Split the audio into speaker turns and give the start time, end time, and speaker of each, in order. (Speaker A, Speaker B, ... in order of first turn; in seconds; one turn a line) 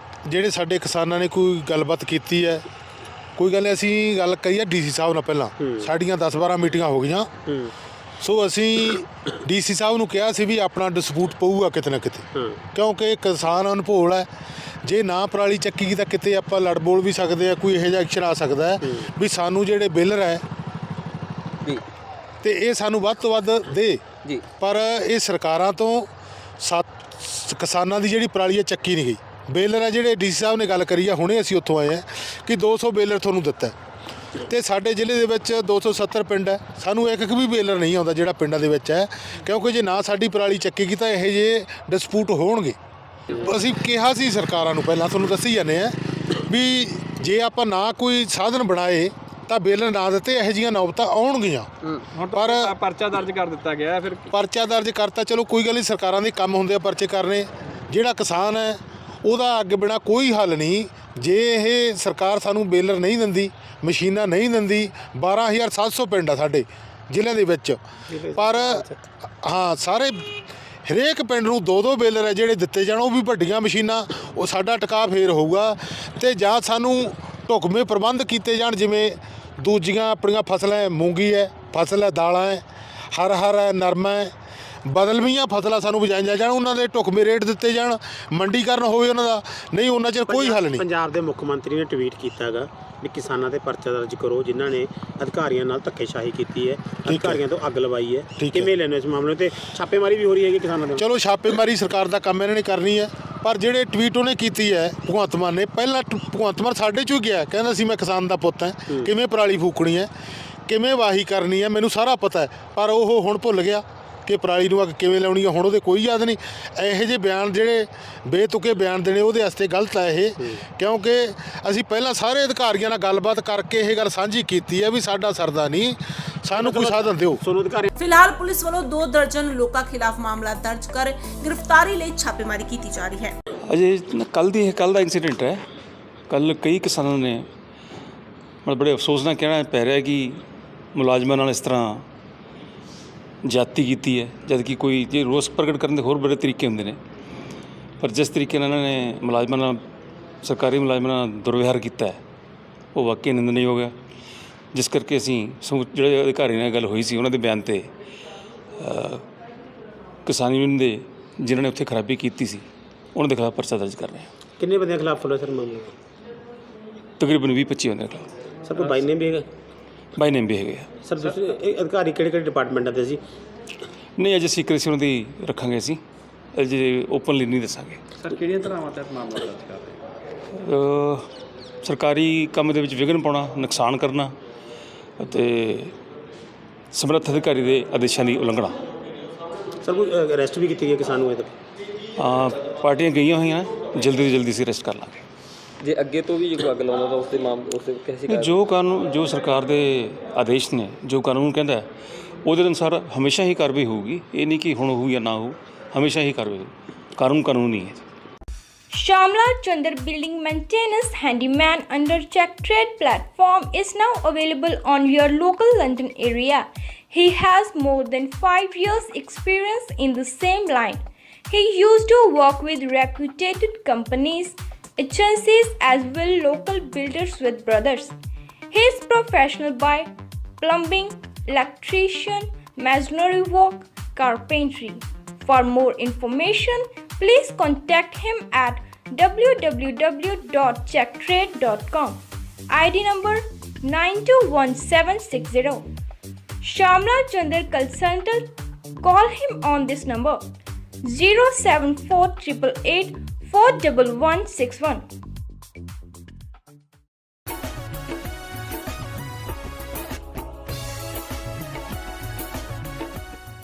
Speaker A: 0.2-2.6
Speaker A: 3.4-7.3
Speaker B: 5.6-5.9
Speaker B: 7.5-7.7
Speaker A: 8.2-14.3
Speaker B: 12.3-12.6
Speaker A: 14.8-20.4
Speaker A: 22.4-24.1
Speaker A: 24.6-33.7
Speaker A: 34.4-42.8
Speaker A: 43.3-51.7
Speaker C: 51.9-54.3
Speaker A: 52.3-52.8
Speaker A: 54.3-67.8
Speaker B: 68.1-69.0
Speaker A: 68.3-68.8
Speaker A: 69.4-84.3
Speaker A: 84.8-90.8
Speaker B: 90.3-101.0
Speaker A: 97.0-97.4
Speaker A: 98.4-98.7
Speaker A: 101.0-110.1
Speaker A: 110.7-127.4
Speaker B: 126.5-127.9
Speaker D: 128.0-133.3
Speaker E: 133.7-135.6
Speaker E: 136.3-137.5
Speaker E: 138.6-140.4
Speaker E: 140.9-142.0
Speaker E: 143.4-147.0
Speaker E: 148.0-149.8
Speaker E: 150.4-152.2
Speaker E: 152.9-153.9
Speaker E: 154.7-157.9
Speaker E: 158.8-159.2
Speaker E: 160.2-164.3
Speaker B: 164.6-165.9
Speaker E: 167.2-168.3
Speaker B: 168.7-169.5
Speaker E: 170.2-170.9
Speaker B: 171.0-173.2
Speaker E: 174.2-176.0
Speaker E: 176.5-178.0
Speaker C: 178.2-180.0
Speaker E: 180.5-181.3
Speaker E: 181.8-184.3
Speaker E: 185.2-185.9
Speaker E: 186.9-188.8
Speaker B: 189.8-191.5
Speaker E: 192.2-195.2
Speaker F: 195.8-198.5
Speaker E: 198.3-201.9
Speaker E: 202.4-208.0
Speaker G: 208.9-228.2
Speaker G: 228.7-245.8
Speaker G: 246.6-248.5
Speaker G: 249.0-250.4
Speaker G: 251.0-255.0